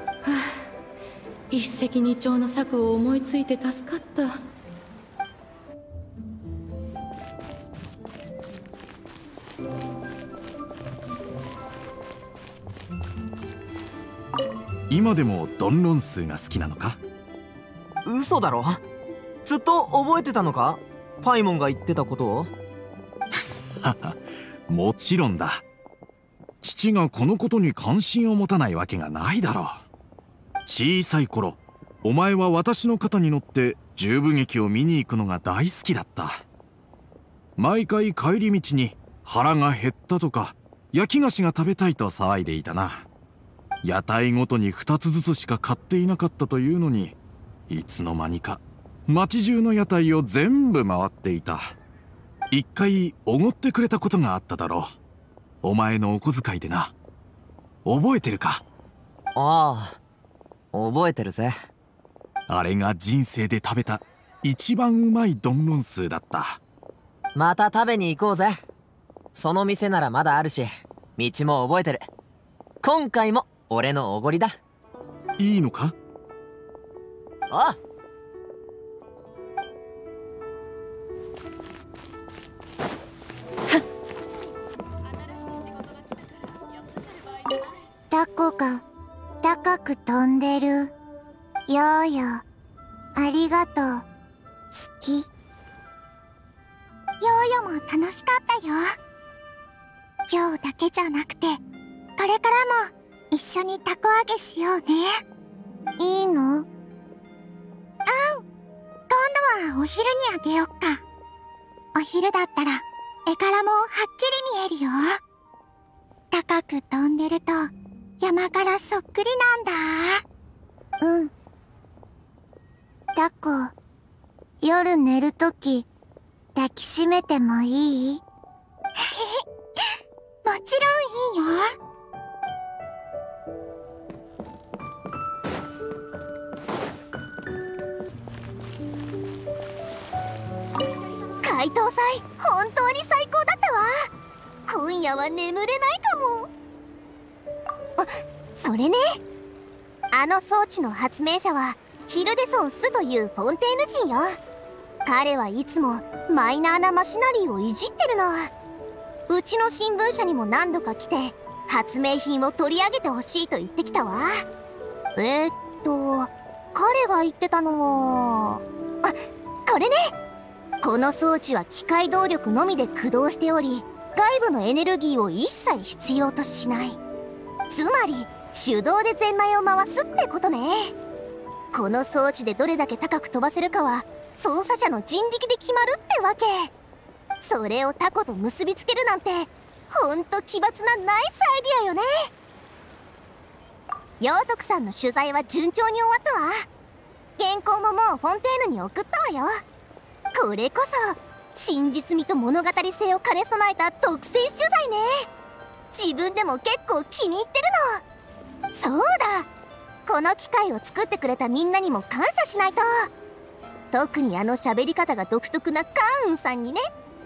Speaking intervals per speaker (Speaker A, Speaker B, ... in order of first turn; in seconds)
Speaker A: 0.2-0.6, 1.5-4.3
Speaker B: 14.9-17.0, 23.8-25.6, 26.6-29.9, 30.6-36.4, 37.6-43.1, 43.8-47.2, 47.7-51.8, 52.5-55.0, 55.6-56.9, 57.8-58.6, 62.5-66.6, 75.4-75.9
Speaker C: 18.0-18.8, 19.4-22.5, 59.3-60.0, 60.7-61.5, 67.3-68.5, 69.3-72.0, 72.8-74.5, 77.5-77.8
Speaker D: 88.1-88.8, 89.4-90.9, 91.7-92.4, 93.2-94.0, 94.7-95.3, 97.2-98.9, 100.3-101.6, 102.2-105.2, 106.0-106.7, 108.1-108.4, 109.1-111.0, 111.9-115.2, 116.3-120.2, 121.0-121.3, 123.2-123.7, 124.6-125.9, 126.5-128.2, 129.0-129.4, 130.4-131.7
Speaker E: 141.4-144.0, 144.7-146.5, 148.0-149.2, 150.1-154.3, 155.0-158.5, 159.3-164.3, 165.2-170.1, 170.8-177.0, 177.7-180.9, 181.7-186.7, 187.4-192.1, 194.2-196.7, 197.4-199.6, 200.3-205.2, 205.9-208.0, 208.7-209.5, 210.1-213.1, 213.9-216.8